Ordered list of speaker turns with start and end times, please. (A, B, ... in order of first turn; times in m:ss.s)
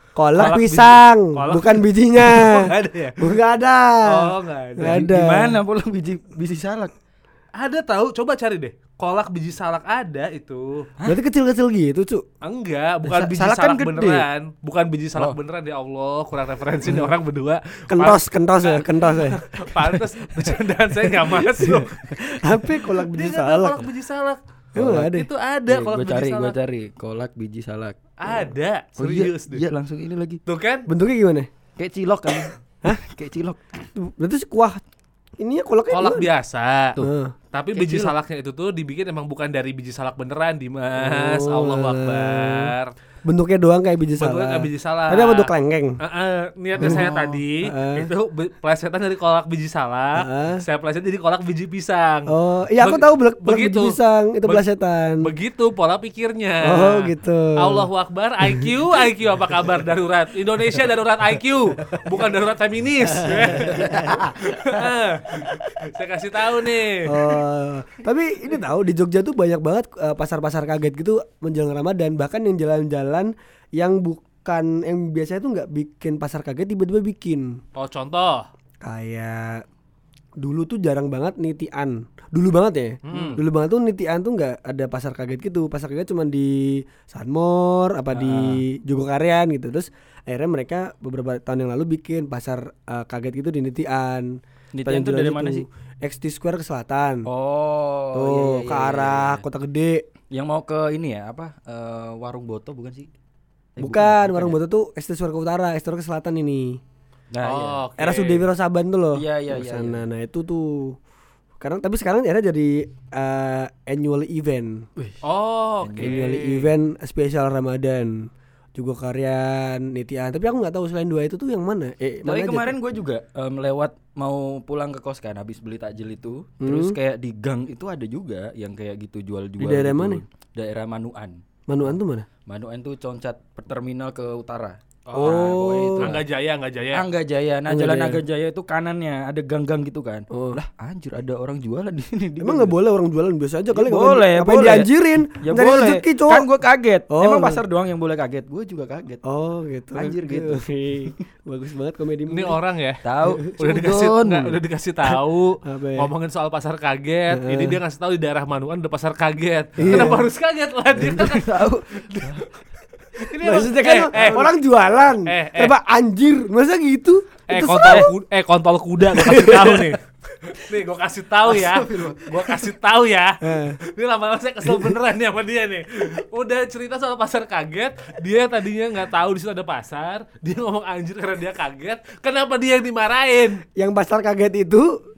0:00.2-0:05.6 A
0:00.3-0:03.3 B
0:04.0-0:05.0 B
0:04.8-0:06.9 C
0:07.6-0:10.9 B
0:11.0-0:12.2 A
0:12.4-0:22.1 B
0:13.0-0:14.3 C
0:16.8-0:17.1 A
0:17.9-0:19.4 A
0:22.0-0:23.9 A
0:22.9-0:26.6 B
0:24.7-0:25.3 A
0:25.7-0:28.0 C
0:28.2-0:29.6 B
0:29.0-0:30.4 C
0:30.5-0:30.9 B
0:30.9-0:31.5 A
0:31.8-0:33.6 C
0:34.0-0:34.8 A
0:35.4-0:36.3 A
0:35.9-0:37.0 B
0:37.0-0:37.3 A
0:37.5-0:42.9 B
0:37.7-0:38.1 C
0:41.0-0:42.7 A
0:43.2-0:46.0 A
0:44.2-0:45.5 B
0:46.0-0:52.3 B
0:46.8-0:47.1 A
0:46.8-0:47.4 C
0:47.6-0:48.1 A
0:50.2-0:50.6 A
0:52.3-0:55.3 A
0:52.8-0:54.6 B
0:55.2-1:07.4 B
0:56.6-0:57.8 A
1:03.2-1:04.2 A
1:03.3-1:04.8 C
1:07.1-1:17.5 A
1:17.8-1:18.4 B
1:18.8-1:19.6 A
1:20.4-1:37.3 A
1:23.0-1:23.4 B
1:23.1-1:23.4 C
1:28.1-1:28.6 C
1:34.7-1:35.6 C
1:37.3-1:39.4 C
1:38.1-1:40.0 A
1:40.3-1:43.1 C
1:43.8-1:44.6 C
1:43.8-1:46.8 A
1:47.3-1:47.8 C
1:47.4-1:48.5 B
1:48.0-1:51.0 A
1:49.1-1:50.0 C
1:51.6-1:54.9 A
1:55.2-1:56.7 B
1:55.8-1:56.2 C
1:56.0-2:02.7 A
2:02.2-2:16.2 C
2:06.6-2:07.0 A
2:09.6-2:10.2 A
2:11.7-2:12.3 A
2:15.1-2:17.0 B
2:15.2-2:16.2 A
2:16.9-2:22.7 C
2:17.7-2:18.2 A
2:20.3-2:20.6 A
2:22.4-2:26.5 A
2:23.7-2:29.2 C
2:27.1-2:27.6 A
2:29.2-2:32.6 A
2:29.9-2:30.6 C
2:32.3-2:33.0 B
2:33.0-2:34.6 C
2:33.6-2:42.5 B
2:35.6-2:36.1 A
2:37.3-2:37.8 A
2:39.8-2:40.3 A
2:41.0-2:42.4 C
2:43.1-2:44.5 B
2:43.4-2:48.1 A
2:44.1-2:44.5 C
2:45.2-2:45.7 B
2:47.5-3:03.6 B
2:49.1-2:49.9 A
2:51.4-2:52.7 C
2:53.4-2:53.8 A
3:03.8-3:05.0 A